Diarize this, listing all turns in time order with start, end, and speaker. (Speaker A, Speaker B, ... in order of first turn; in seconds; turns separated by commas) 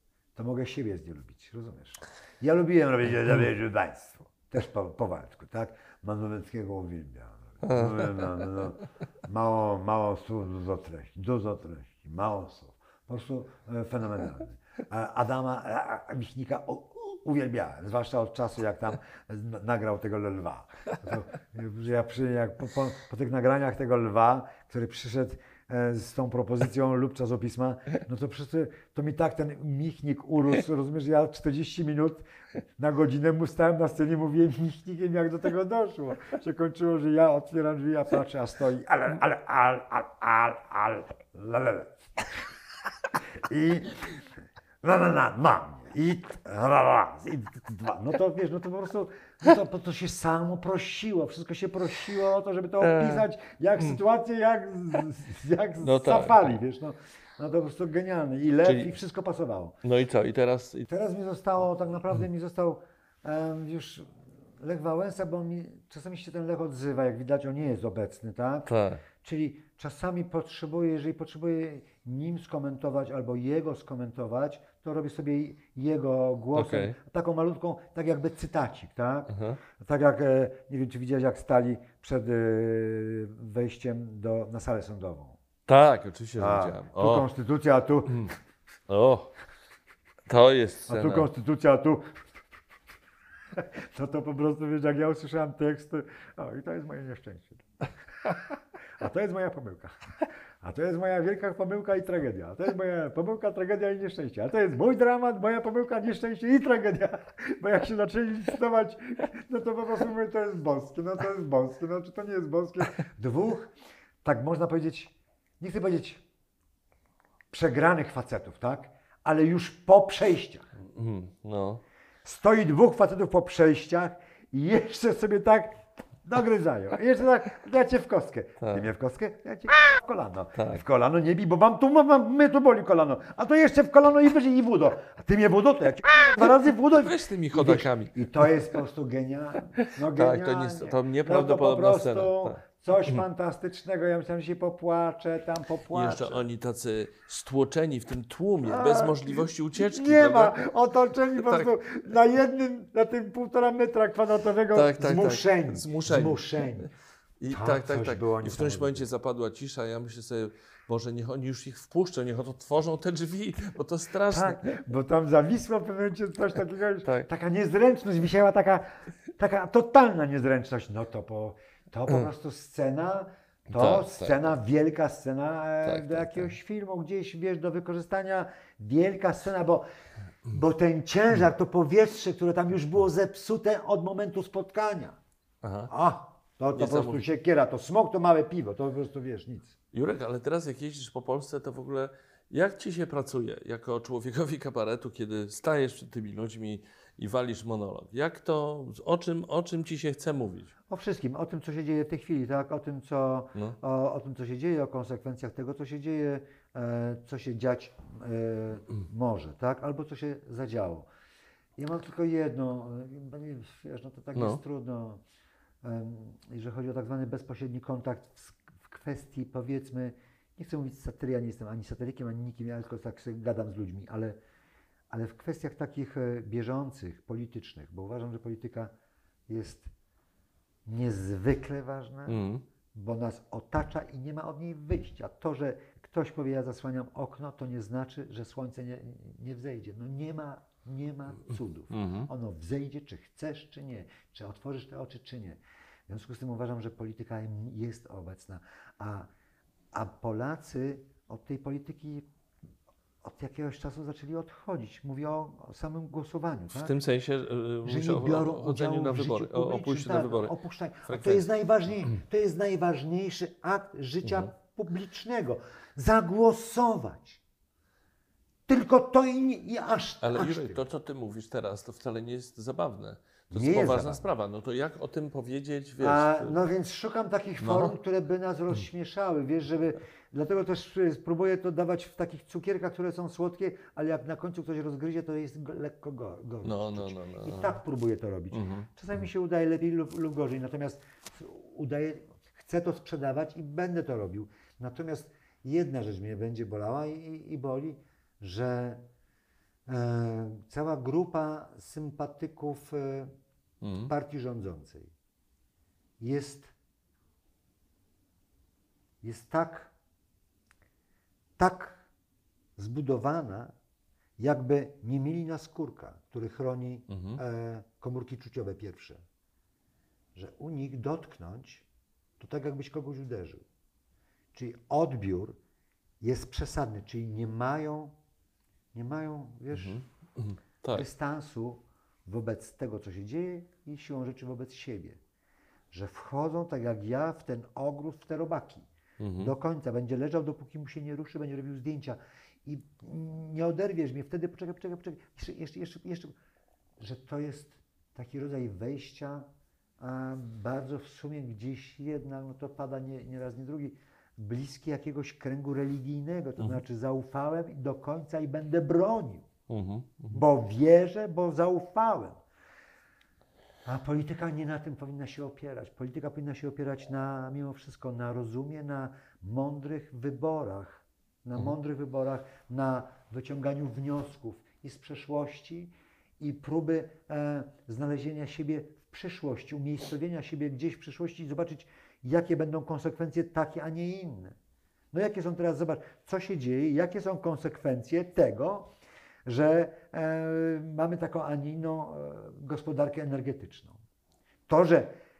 Speaker A: 0.3-32.2, Speaker B: 7.6-8.3, Speaker A: 32.8-42.3, Speaker A: 43.3-44.2, Speaker A: 44.8-59.8, Speaker B: 52.8-53.2, Speaker B: 55.8-56.5, Speaker B: 58.6-58.9, Speaker B: 59.8-60.9, Speaker A: 60.9-85.4, Speaker B: 68.7-69.0, Speaker B: 76.5-77.0, Speaker B: 79.3-79.6, Speaker B: 85.7-87.3, Speaker A: 86.4-88.3, Speaker B: 88.1-88.3, Speaker B: 88.9-89.3, Speaker B: 90.3-91.3, Speaker A: 90.9-92.4, Speaker A: 93.5-97.7, Speaker A: 99.0-100.0, Speaker A: 100.6-113.7, Speaker A: 114.2-116.2, Speaker A: 117.5-120.7, Speaker B: 120.9-121.8, Speaker A: 122.2-146.4, Speaker B: 128.6-128.9, Speaker B: 136.9-138.5, Speaker B: 139.8-143.2, Speaker B: 145.9-150.6, Speaker A: 148.6-156.9, Speaker B: 151.4-151.7, Speaker B: 154.7-156.8, Speaker B: 157.4-164.8, Speaker A: 157.5-159.1, Speaker A: 164.3-179.8, Speaker B: 173.7-174.6, Speaker B: 175.8-176.5, Speaker A: 180.5-185.2, Speaker B: 185.6-185.9, Speaker A: 185.9-189.7, Speaker B: 186.7-187.2, Speaker B: 189.9-200.7, Speaker A: 200.9-211.1, Speaker A: 211.8-215.2, Speaker B: 214.3-214.6, Speaker A: 215.8-224.4, Speaker A: 225.1-228.9, Speaker A: 229.5-229.9, Speaker A: 230.8-249.3, Speaker B: 232.3-232.6, Speaker B: 241.9-242.3, Speaker A: 249.9-252.3, Speaker A: 253.2-256.9, Speaker B: 256.7-260.5, Speaker A: 257.9-267.4, Speaker B: 261.1-261.5, Speaker B: 264.2-264.5, Speaker A: 268.7-270.8, Speaker B: 270.2-276.6, Speaker A: 273.5-274.2, Speaker A: 276.0-299.0, Speaker B: 277.6-277.9, Speaker B: 286.6-287.8, Speaker B: 288.5-288.9, Speaker A: 299.9-303.3, Speaker B: 303.8-304.1, Speaker A: 304.1-305.1, Speaker A: 306.2-306.7, Speaker A: 309.2-309.9, Speaker A: 311.6-312.0, Speaker A: 312.8-313.7, Speaker A: 314.4-319.2, Speaker B: 317.1-317.4, Speaker A: 320.3-321.9, Speaker A: 322.4-323.6, Speaker A: 324.5-325.6, Speaker A: 326.2-328.1, Speaker A: 328.9-330.0, Speaker B: 329.7-331.1, Speaker A: 330.9-335.2, Speaker A: 335.9-346.3, Speaker B: 339.2-339.5, Speaker A: 347.0-349.5, Speaker A: 350.0-359.5, Speaker B: 359.7-360.4, Speaker A: 360.3-362.4, Speaker A: 363.9-384.6, Speaker A: 385.1-388.9, Speaker A: 389.4-394.0, Speaker A: 394.7-395.1